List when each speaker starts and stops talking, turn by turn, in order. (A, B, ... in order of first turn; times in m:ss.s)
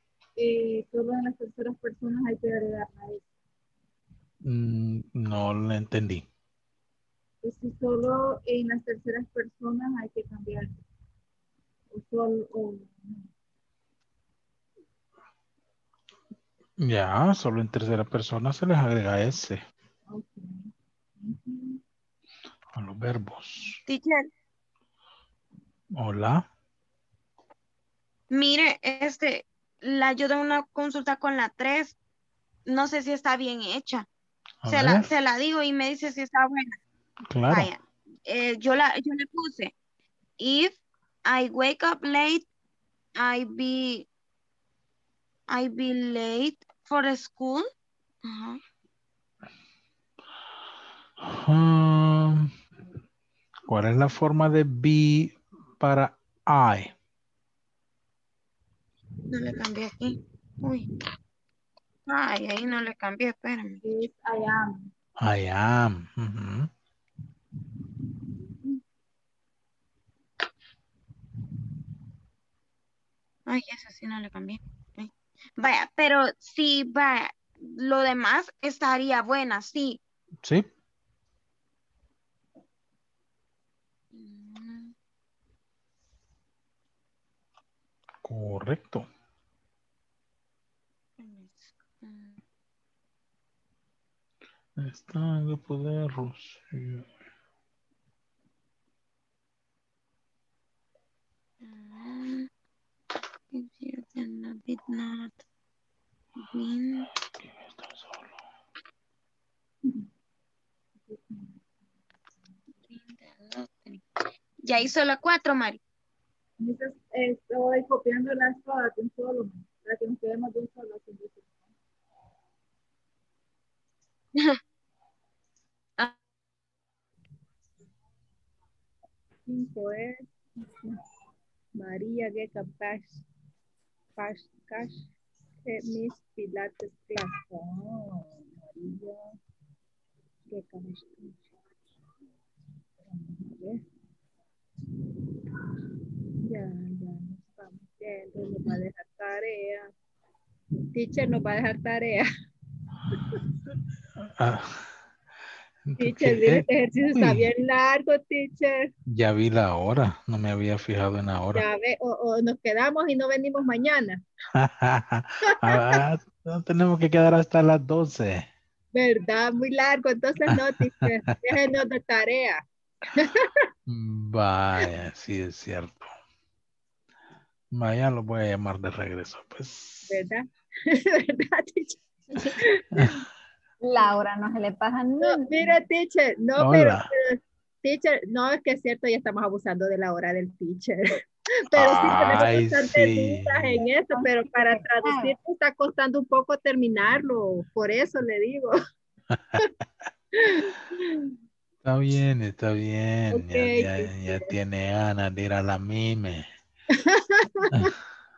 0:00.4-0:03.2 A
0:04.4-0:06.2 B
0:07.4-0:10.7 A
0:11.9-0:13.3 A
0:16.8-0:19.6 B
0:20.1-0:20.6 A
0:21.2-0:21.8 A
0:22.7-0:23.8 B
0:23.8-0:24.3 C
0:26.0-0:26.5 B
0:28.3-0:32.0 C
0:32.7-0:34.0 C
0:34.6-0:35.1 B
0:34.7-0:36.8 C
0:37.3-0:37.7 B
0:37.5-0:39.7 C
0:40.4-0:42.4 C
0:43.2-0:44.0 C
0:45.5-0:47.7 C
0:48.2-0:48.6 C
0:51.2-0:52.5 B
0:53.7-0:56.9 B
0:59.3-1:00.8 C
1:02.1-1:04.0 C
1:03.8-1:04.8 A
1:05.2-1:06.7 B
1:13.5-1:20.0 C
1:20.4-1:20.7 B
1:24.1-1:24.9 C
1:28.2-1:29.1 B
1:31.2-1:32.4 C
1:34.8-1:37.1 B
1:41.6-1:42.5 C
1:43.5-1:45.4 C
1:46.4-1:47.1 C
1:47.4-1:48.3 B
1:51.1-1:51.6 A
1:52.9-1:54.0 C
1:54.6-1:55.8 C
1:56.6-2:01.7 A
2:09.5-2:11.0 A
2:11.8-2:13.2 A
2:14.2-2:15.0 A
2:15.6-2:19.2 A
2:20.5-2:21.4 A
2:23.1-2:23.8 A
2:26.5-2:29.9 A
2:30.9-2:32.2 A
2:34.2-2:34.9 B
2:35.9-2:37.5 B
2:36.0-2:38.9 A
2:39.1-2:41.6 B
2:41.5-2:44.2 A
2:44.5-2:48.5 B
2:45.7-2:46.0 A
2:48.9-2:52.6 A
2:53.9-2:56.1 B
2:57.7-3:00.2 B
3:00.1-3:02.0 A
3:02.7-3:03.1 A
3:02.9-3:03.2 B
3:03.8-3:05.5 D
3:05.2-3:11.0 A
3:06.6-3:07.1 B
3:11.6-3:18.7 A
3:11.7-3:13.8 B
3:14.1-3:15.3 D
3:19.3-3:19.6 B
3:20.5-3:21.1 A
3:21.8-3:26.5 B
3:23.3-3:24.5 A
3:27.1-3:27.9 A
3:27.7-3:28.0 B